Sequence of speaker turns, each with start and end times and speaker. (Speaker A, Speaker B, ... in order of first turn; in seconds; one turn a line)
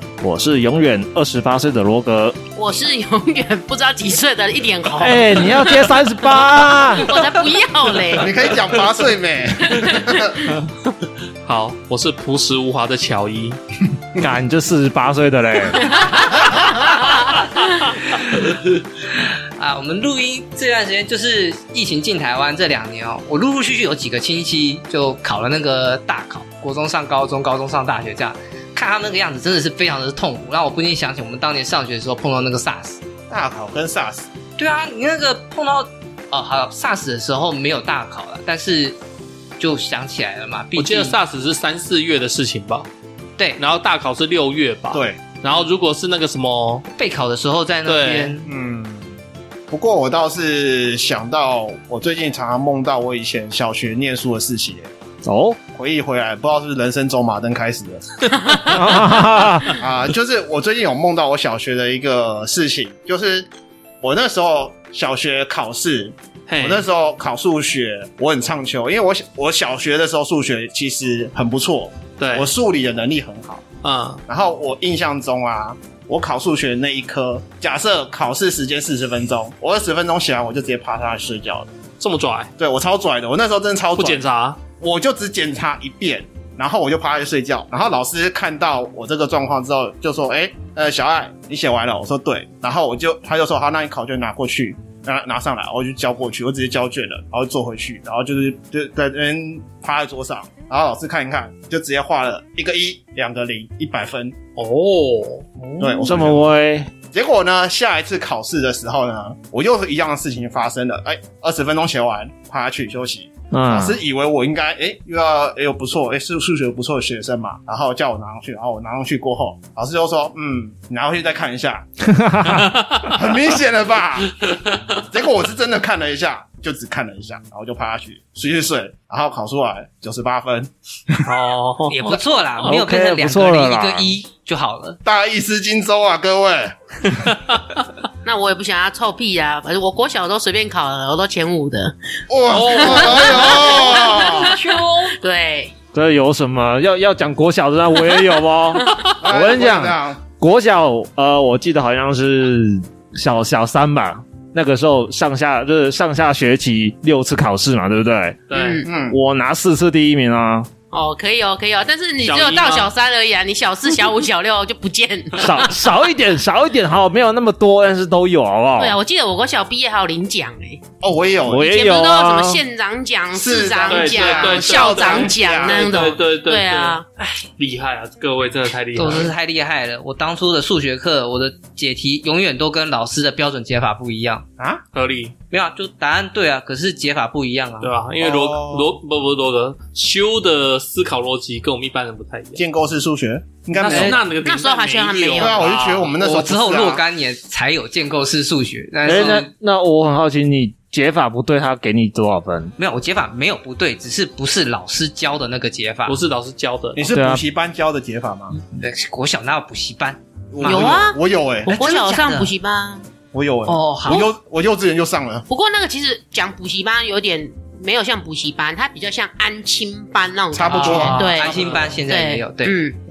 Speaker A: 0.2-2.4
Speaker B: 2.5-8.3
Speaker A: 5.0-7.1
Speaker C: 8.1-10.6
Speaker B: 9.7-10.3
Speaker D: 11.4-13.6
Speaker A: 14.2-16.0
Speaker B: 15.9-17.1
Speaker E: 16.6-17.4
Speaker E: 18.0-33.0
Speaker C: 33.3-34.3
Speaker E: 34.6-39.0
Speaker E: 39.6-41.2
Speaker D: 40.7-42.9
Speaker D: 43.6-46.9
Speaker C: 44.9-45.2
Speaker E: 47.0-48.5
Speaker D: 47.8-48.4
Speaker C: 48.4-49.1
Speaker C: 49.7-54.9
Speaker A: 55.2-55.6
Speaker C: 55.7-58.4
Speaker A: 58.6-59.8
Speaker C: 59.7-63.5
Speaker C: 64.0-73.6
Speaker D: 66.5-66.8
Speaker D: 72.2-72.5
Speaker D: 73.8-74.2
Speaker C: 74.3-81.7
Speaker D: 82.0-82.5
Speaker C: 82.6-84.2
Speaker D: 83.9-84.6
Speaker C: 84.8-104.3
Speaker D: 104.5-105.7
Speaker C: 105.8-106.4
Speaker A: 106.0-106.9
Speaker C: 107.1-121.9
Speaker A: 113.5-114.0
Speaker A: 122.0-122.8
Speaker C: 123.0-131.3
Speaker D: 131.2-132.7
Speaker E: 131.9-135.0
Speaker A: 132.6-134.1
Speaker C: 135.0-137.2
Speaker B: 138.2-141.9
Speaker C: 142.3-144.5
Speaker D: 142.5-143.5
Speaker B: 142.5-145.7
Speaker E: 143.5-145.1
Speaker A: 145.9-158.4
Speaker B: 148.8-149.1
Speaker C: 149.2-150.2
Speaker D: 158.5-158.8
Speaker B: 158.5-158.9
Speaker C: 158.8-159.2
Speaker A: 159.1-160.7
Speaker B: 160.9-165.9
Speaker D: 162.2-162.9
Speaker A: 165.3-169.0
Speaker B: 168.8-170.8
Speaker C: 171.0-171.6
Speaker A: 171.4-172.6
Speaker B: 171.6-177.0
Speaker C: 173.3-176.0
Speaker D: 173.9-177.0
Speaker E: 177.2-177.4
Speaker D: 177.6-179.3
Speaker E: 178.9-184.4
Speaker D: 184.9-185.3
Speaker E: 185.5-187.9
Speaker D: 187.8-192.6
Speaker C: 188.2-188.9
Speaker C: 192.6-194.2
Speaker D: 193.7-196.1
Speaker A: 193.9-194.2
Speaker B: 194.4-195.7
Speaker C: 195.3-197.0
Speaker E: 196.2-199.5
Speaker A: 199.0-202.7
Speaker D: 199.1-199.4
Speaker E: 202.8-206.2
Speaker D: 206.1-207.1
Speaker C: 206.9-208.6
Speaker A: 207.1-207.4
Speaker E: 208.7-211.1
Speaker C: 210.5-211.7
Speaker B: 210.6-211.2
Speaker E: 211.7-212.5
Speaker B: 211.7-213.0
Speaker C: 213.3-215.4
Speaker E: 213.7-214.3
Speaker B: 215.5-223.0
Speaker C: 220.5-222.0
Speaker D: 220.7-221.8
Speaker E: 220.8-222.8